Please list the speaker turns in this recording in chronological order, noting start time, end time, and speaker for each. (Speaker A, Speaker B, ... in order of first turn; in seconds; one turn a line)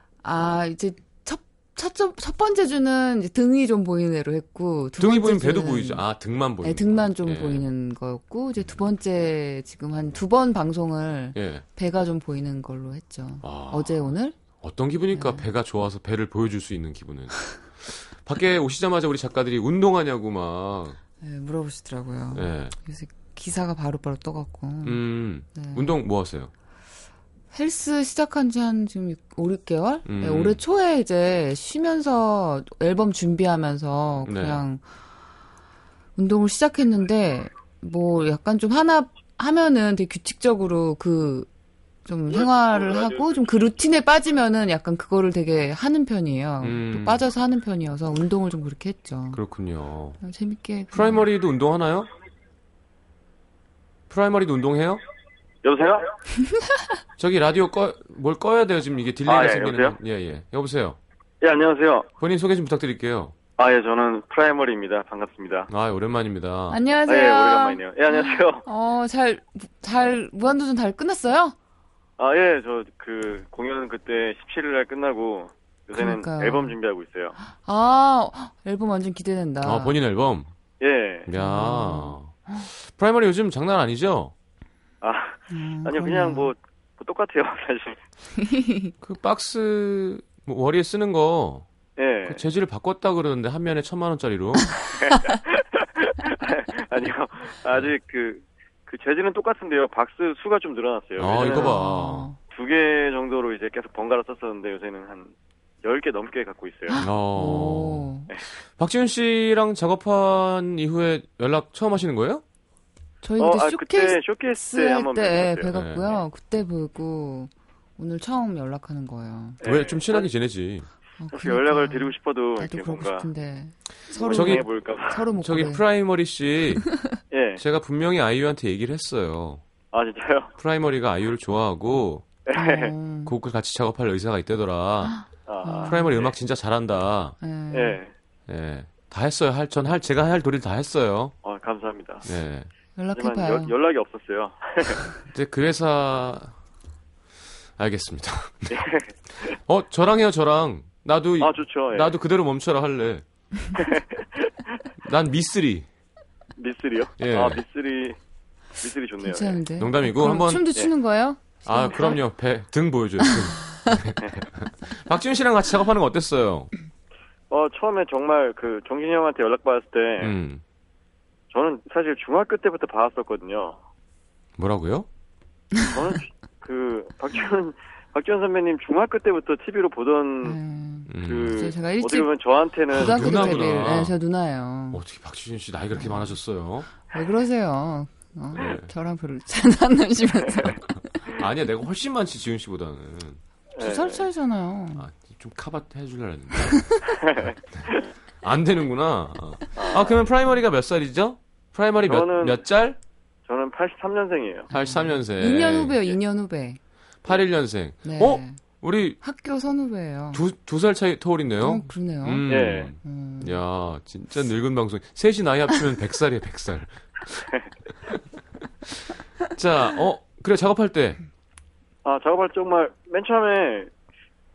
Speaker A: 0.2-6.0
Speaker B: 5.0-7.7
Speaker A: 6.6-14.4
Speaker B: 11.3-11.6
Speaker B: 13.4-21.0
Speaker A: 15.1-15.4
Speaker A: 21.2-26.0
Speaker B: 22.3-22.8
Speaker B: 24.8-26.5
Speaker A: 27.5-34.8
Speaker B: 30.1-30.6
Speaker B: 34.2-34.6
Speaker A: 36.2-41.5
Speaker A: 42.1-49.4
Speaker B: 46.6-47.3
Speaker B: 49.3-50.2
Speaker A: 50.2-51.3
Speaker B: 50.9-52.1
Speaker B: 54.1-55.0
Speaker C: 55.6-56.1
Speaker A: 56.6-56.9
Speaker B: 57.2-61.0
Speaker C: 59.2-60.0
Speaker C: 61.4-62.1
Speaker B: 62.2-63.4
Speaker C: 63.6-65.7
Speaker B: 65.7-66.8
Speaker A: 66.7-71.5
Speaker C: 67.1-68.7
Speaker C: 72.2-77.4
Speaker A: 75.9-76.8
Speaker A: 77.5-80.0
Speaker B: 79.6-80.5
Speaker C: 80.8-81.3
Speaker B: 81.3-84.3
Speaker A: 81.3-82.7
Speaker C: 85.0-88.0
Speaker A: 85.5-86.5
Speaker A: 88.4-88.9
Speaker B: 89.0-91.7
Speaker C: 92.0-92.4
Speaker B: 92.3-94.8
Speaker C: 94.9-101.8
Speaker B: 101.2-102.3
Speaker A: 101.5-102.4
Speaker C: 102.5-107.0
Speaker A: 106.9-108.3
Speaker B: 107.0-108.1
Speaker B: 108.7-112.4
Speaker A: 113.2-119.6
Speaker C: 113.4-115.8
Speaker B: 115.7-116.0
Speaker C: 119.6-120.3
Speaker B: 119.6-120.9
Speaker A: 121.2-125.8
Speaker C: 121.3-123.3
Speaker C: 124.1-125.2
Speaker B: 124.3-124.7
Speaker B: 125.4-127.0
Speaker C: 127.3-127.6
Speaker B: 127.6-129.6
Speaker C: 129.9-130.5
Speaker B: 130.6-132.3
Speaker C: 132.5-132.9
Speaker A: 132.5-133.3
Speaker B: 133.3-135.2
Speaker C: 135.5-136.3
Speaker A: 135.6-136.2
Speaker B: 135.8-137.4
Speaker A: 137.4-138.0
Speaker C: 137.7-138.1
Speaker B: 138.5-141.3
Speaker C: 141.4-142.3
Speaker B: 142.2-142.7
Speaker A: 143.0-143.7
Speaker C: 143.2-145.1
Speaker B: 145.3-146.6
Speaker B: 147.8-148.8
Speaker C: 148.7-149.6
Speaker B: 149.4-153.2
Speaker C: 151.4-152.1
Speaker C: 153.8-154.7
Speaker B: 155.0-155.9
Speaker C: 156.6-158.2
Speaker B: 157.2-157.6
Speaker C: 158.8-159.6
Speaker A: 159.2-162.2
Speaker B: 159.8-160.7
Speaker B: 161.7-166.7
Speaker C: 167.5-170.3
Speaker B: 170.2-170.6
Speaker C: 171.5-173.8
Speaker B: 174.6-175.1
Speaker C: 175.8-180.6
Speaker A: 180.4-182.3
Speaker B: 181.1-181.7
Speaker C: 181.2-183.8
Speaker B: 182.9-184.2
Speaker A: 182.9-185.0
Speaker B: 184.9-186.9
Speaker A: 186.0-186.4
Speaker A: 187.1-191.3
Speaker B: 188.5-188.9
Speaker B: 191.3-193.4
Speaker C: 193.8-194.3
Speaker A: 193.8-195.1
Speaker B: 195.0-197.0
Speaker A: 196.7-197.0
Speaker C: 197.1-198.1
Speaker B: 198.4-203.0
Speaker C: 199.8-200.3
Speaker C: 202.1-202.6
Speaker C: 203.5-204.7
Speaker A: 204.7-206.8
Speaker B: 204.7-206.0
Speaker B: 207.2-209.2
Speaker A: 208.0-208.6
Speaker A: 209.2-210.4
Speaker B: 210.3-217.5
Speaker A: 211.6-212.4
Speaker C: 212.5-212.9
Speaker A: 213.0-213.6
Speaker B: 218.8-221.2
Speaker C: 222.1-223.9